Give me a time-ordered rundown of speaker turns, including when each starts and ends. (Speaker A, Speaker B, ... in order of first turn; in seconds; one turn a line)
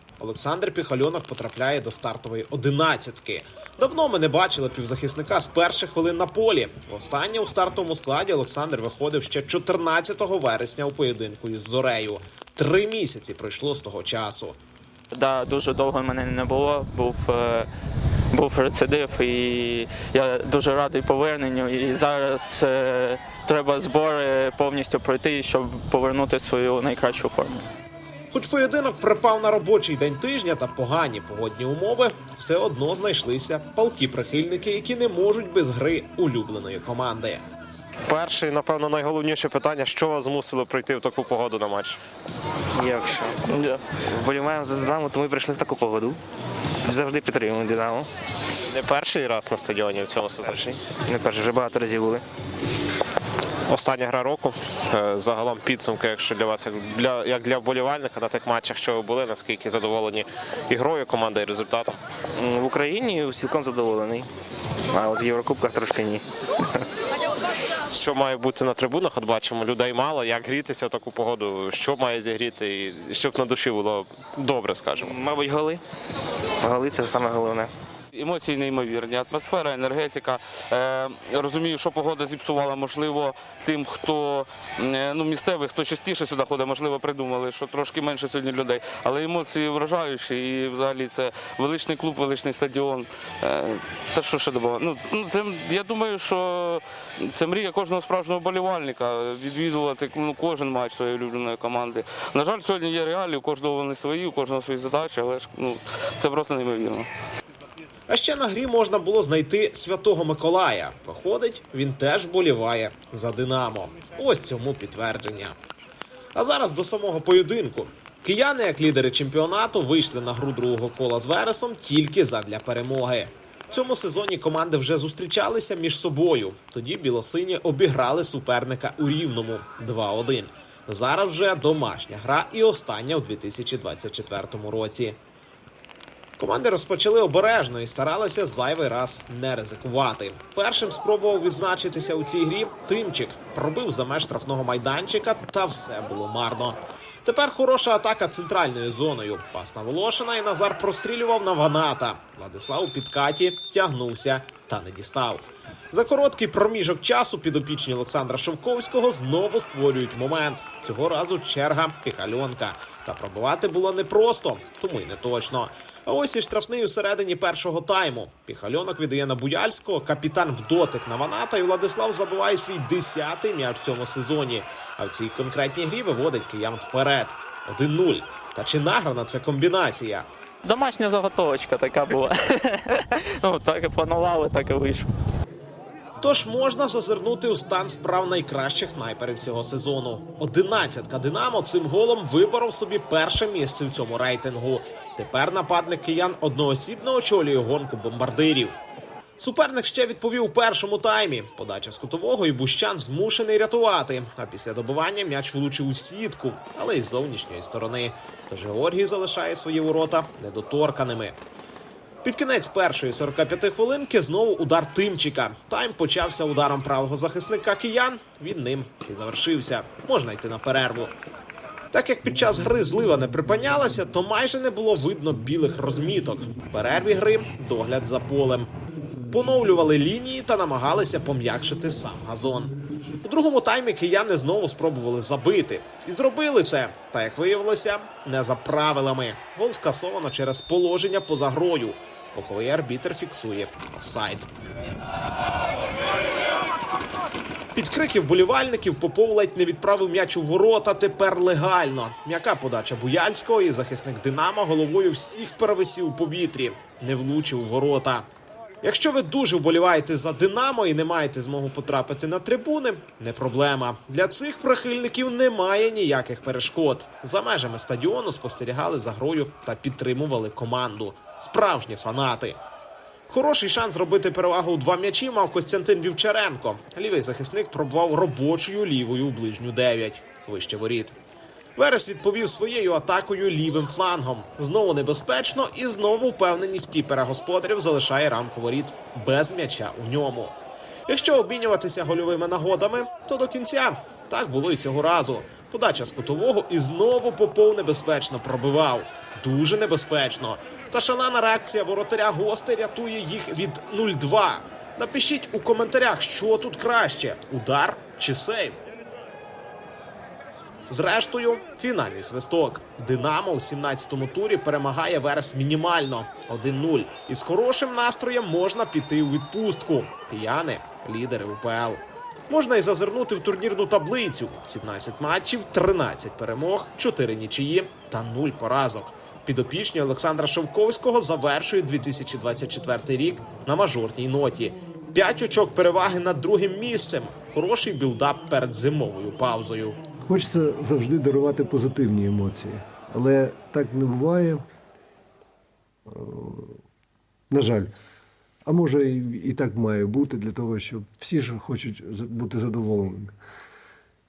Speaker A: 0.2-14.6
Speaker B: 15.1-17.7
Speaker B: 18.3-27.6
Speaker A: 28.3-37.4
Speaker C: 38.1-42.0
Speaker D: 42.8-43.3
Speaker E: 43.5-43.8
Speaker D: 44.2-46.2
Speaker D: 46.9-48.0
Speaker C: 48.7-50.8
Speaker D: 51.1-52.2
Speaker C: 53.7-62.0
Speaker D: 62.4-64.2
Speaker D: 64.9-66.2
Speaker C: 67.9-75.2
Speaker D: 75.1-75.8
Speaker D: 76.6-77.7
Speaker E: 78.1-107.1
Speaker A: 108.1-115.5
Speaker A: 116.3-135.2
Speaker A: 136.4-180.3
Speaker B: 180.6-185.1
Speaker A: 186.2-198.8
Speaker A: 199.4-211.3
Speaker A: 212.2-221.1
Speaker A: 221.9-228.7
Speaker A: 229.3-244.5
Speaker A: 247.7-258.2
Speaker A: 258.8-272.6
Speaker A: 273.3-281.1
Speaker A: 281.8-308.8
Speaker A: 310.9-340.0
Speaker F: 340.2-344.6
Speaker F: 346.1-346.8
Speaker F: 347.5-347.9
Speaker F: 348.7-353.3